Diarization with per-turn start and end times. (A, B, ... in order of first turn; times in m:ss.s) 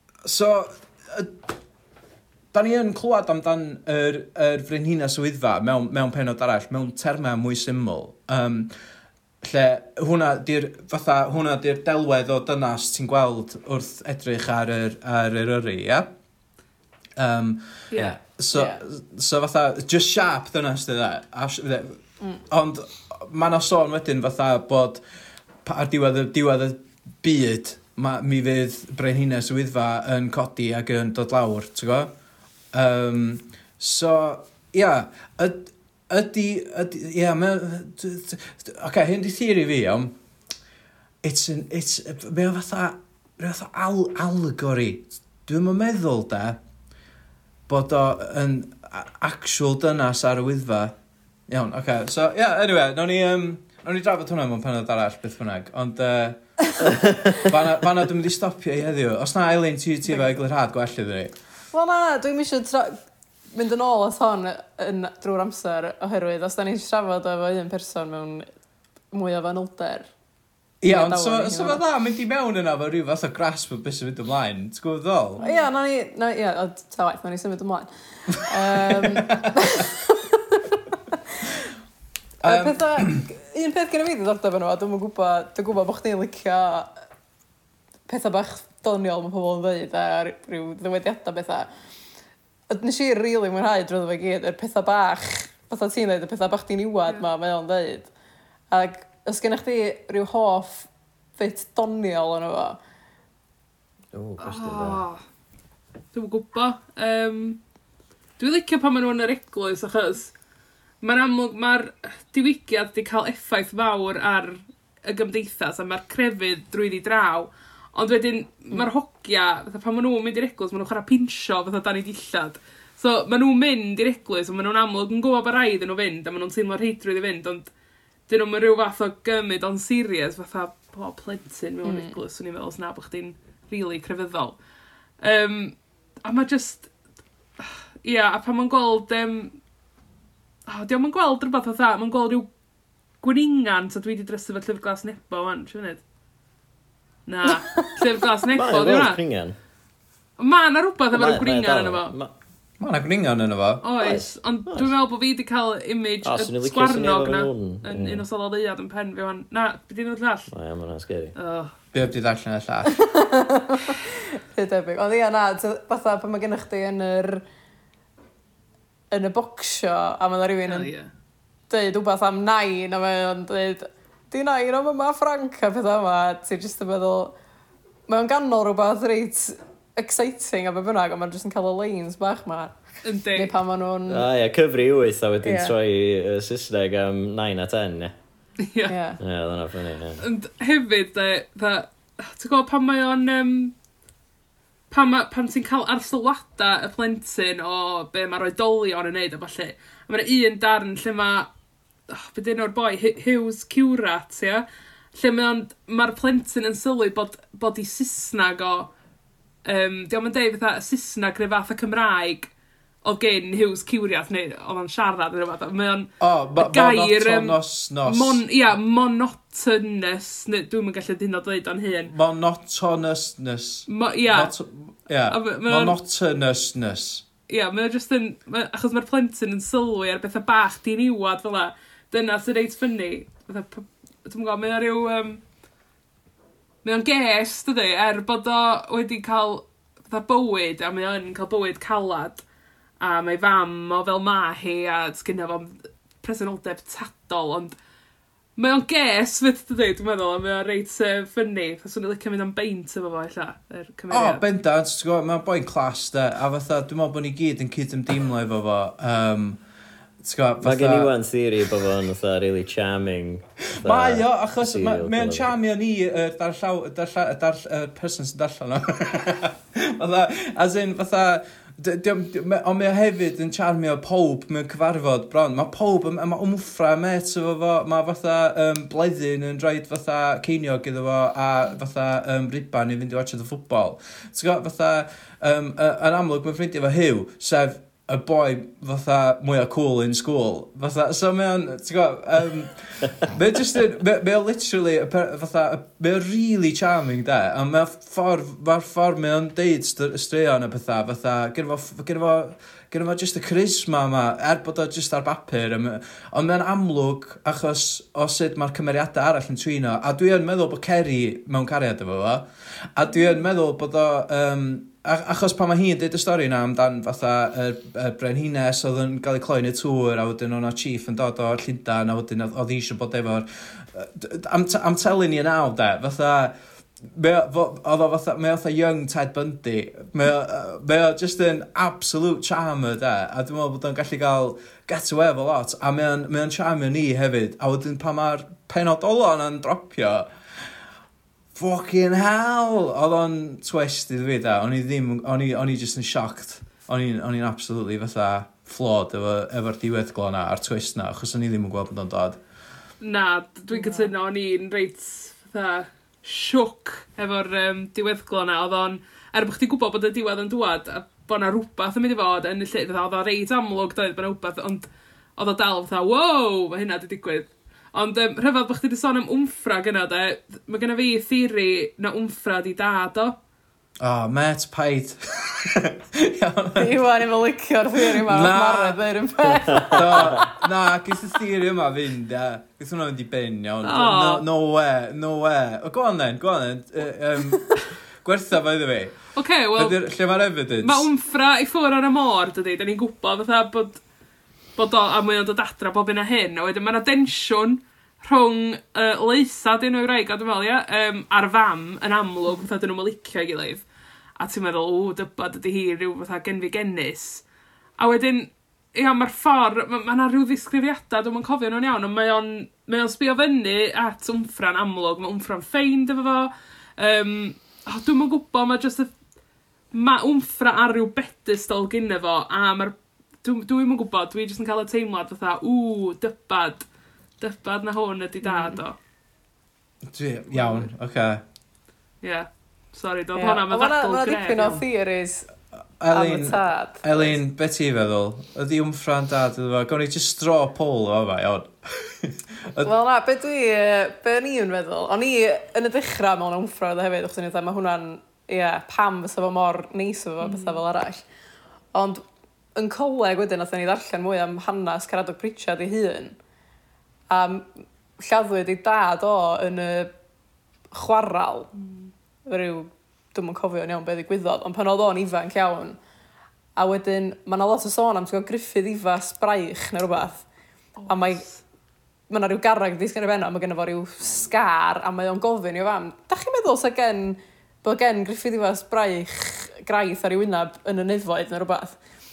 0:00.2-0:01.4 A
0:02.5-0:08.7 A
0:09.4-0:16.1 A
0:17.2-0:25.0 A
0:17.9-0:18.2 B
0:18.5-0:18.8 C
0:25.6-0:32.1 A
0:32.7-0:40.2 A
0:41.2-0:46.6 A
0:47.7-0:50.9 A
0:51.5-0:56.4 A
0:56.9-0:57.4 D
0:57.4-1:01.4 A
1:01.7-1:03.0 C
1:03.5-1:08.5 C
1:09.1-1:10.1 C
1:10.8-1:15.4 A
1:10.8-1:11.8 C
1:15.4-1:21.2 C
1:18.7-1:19.7 A
1:22.4-1:23.2 A
1:22.4-1:26.9 C
1:28.1-1:31.7 C
1:32.7-1:38.1 C
1:38.7-1:42.8 C
1:44.1-1:45.0 D
1:44.4-1:45.2 B
1:46.1-1:47.6 B
1:48.4-1:50.3 B
1:51.0-2:07.7 B
2:08.3-2:14.6 B
2:11.8-2:12.2 C
2:15.2-2:16.9 B
2:17.6-2:19.6 B
2:20.7-2:22.5 B
2:23.2-2:26.0 B
2:27.3-2:29.2 B
2:27.5-2:28.1 C
2:28.5-2:29.6 D
2:30.4-2:32.1 B
2:31.1-2:32.3 D
2:32.8-2:33.8 A
2:33.8-2:40.5 B
2:34.0-2:34.9 D
2:36.2-2:38.2 D
2:40.5-2:41.4 D
2:41.4-2:41.7 B
2:41.9-2:43.0 A
2:43.0-2:47.4 C
2:49.1-2:50.9 C
2:50.7-2:51.1 B
2:51.7-2:57.3 C
2:58.1-3:02.8 C
3:03.0-3:03.6 B
3:03.3-3:04.3 C
3:04.1-3:08.2 D
3:05.4-3:05.7 C
3:08.6-3:09.0 B
3:08.9-3:09.2 C
3:09.2-3:10.2 D
3:10.2-3:13.7 B
3:14.9-3:21.5 B
3:22.1-3:28.9 B
3:29.6-3:32.5 B
3:33.0-3:42.1 B
3:36.2-3:38.4 A
3:42.1-3:47.2 A
3:43.9-3:44.5 B
3:45.3-3:46.0 B
3:47.5-3:55.4 B
3:56.8-4:02.4 B
4:03.0-4:07.8 B
4:08.6-4:14.4 B
4:14.1-4:19.6 A
4:20.2-4:21.1 A
4:20.6-4:25.5 D
4:23.8-5:40.3 A
5:41.6-5:52.4 A
5:53.0-6:13.4 B
5:53.7-5:54.1 C
6:14.0-6:17.0 A
6:16.8-6:20.5 C
6:18.0-6:19.0 A
6:19.8-6:29.2 A
6:23.8-6:24.4 B
6:29.4-6:30.0 B
6:29.8-6:31.1 A
6:30.8-6:34.0 B
6:34.8-6:43.8 B
6:44.4-6:47.4 B
6:48.0-6:59.1 B
6:59.9-7:06.9 B
7:07.4-7:09.0 B
7:08.4-7:08.8 C
7:10.1-7:11.4 A
7:10.5-7:10.9 B
7:12.2-7:14.8 B
7:13.4-7:15.5 C
7:16.0-7:22.9 A
7:16.1-7:17.4 C
7:22.8-7:31.2 C
7:30.4-7:30.8 B
7:31.9-7:32.2 C
7:32.8-7:36.4 C
7:37.3-7:40.1 C
7:40.9-7:41.7 C
7:42.5-7:46.0 C
7:46.8-7:50.4 C
7:51.0-7:51.6 B
7:51.1-7:51.4 C
7:52.3-8:02.0 C